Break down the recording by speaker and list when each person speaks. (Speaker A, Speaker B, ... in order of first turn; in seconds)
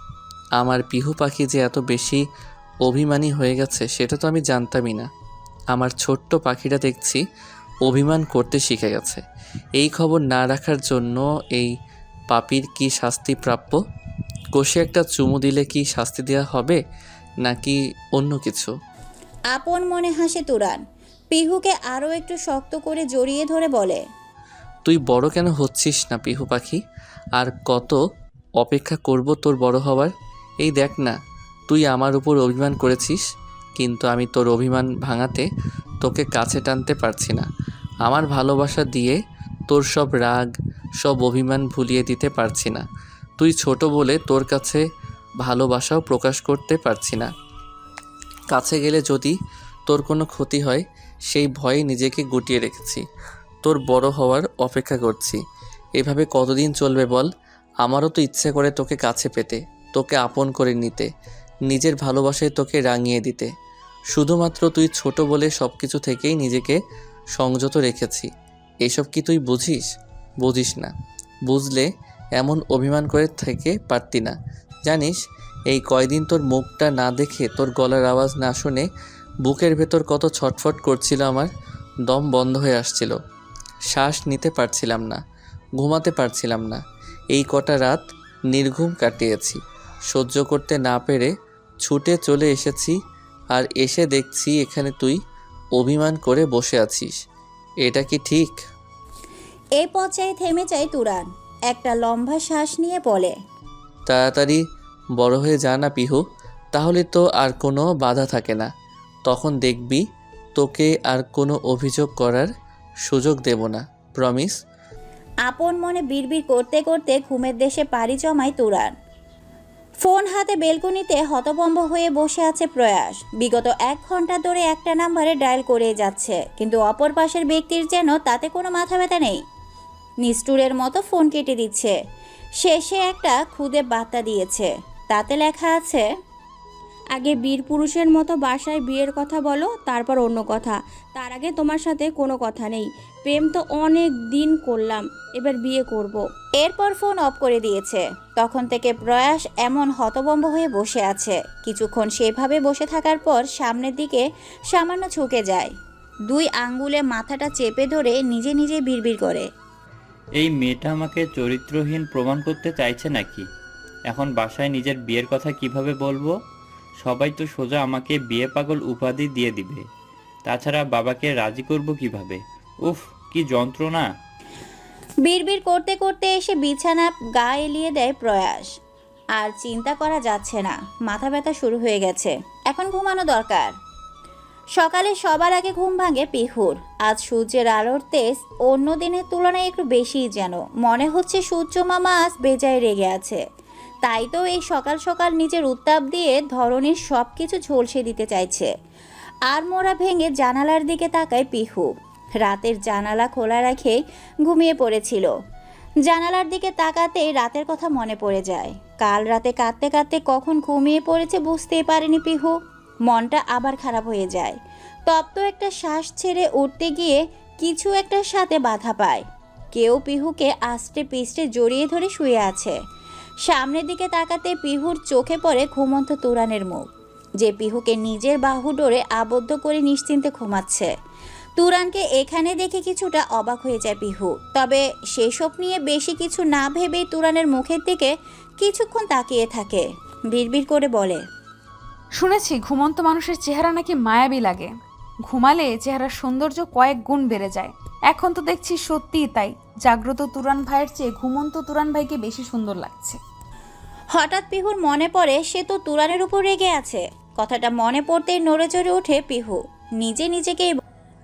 Speaker A: 0.6-2.2, 2.9-5.1, 5.7-7.2, 7.8-9.2, 9.8-11.7, 12.3-13.8, 14.5-16.8, 17.4-18.7, 24.9-26.8, 27.4-28.0, 28.6-30.1, 30.6-31.1, 31.7-33.2, 33.8-35.4, 36.0-37.5, 38.0-39.2, 39.7-40.4, 41.0-42.8, 43.4-44.8, 45.4-47.3, 48.5-49.3, 49.9-53.0, 53.6-55.4, 56.0-57.3, 57.8-61.1, 61.7-63.5, 64.1-66.8, 67.3-68.3, 68.8-69.8, 70.4-70.9, 71.5-74.3, 74.8-75.2, 75.7-78.9, 79.4-81.5, 82.1-83.1, 83.9-85.2, 85.8-86.8, 87.3-91.3, 91.8-92.9, 93.5-95.2, 95.8-97.1, 97.8-98.5, 104.1-104.6, 105.2-106.2, 106.7-108.7, 109.2-110.0, 110.5-112.5, 113.0-114.5
Speaker B: 19.5-20.8, 21.3-24.0, 99.8-103.3, 115.5-118.9, 120.0-129.4, 130.2-131.9, 132.6-136.0, 146.6-155.7, 156.3-159.5, 175.2-178.7, 179.4-183.7, 184.8-193.4, 194.0-198.7, 199.5-201.9, 202.4-205.3, 206.1-212.5, 213.1-214.6, 215.1-219.2, 219.7-222.8, 223.5-226.9, 227.4-230.9, 231.6-241.2, 254.1-260.7
Speaker C: 137.1-146.2
Speaker D: 160.4-163.4, 164.1-166.3, 167.0-169.8, 170.4-174.1
Speaker E: 242.1-244.7, 245.2-253.2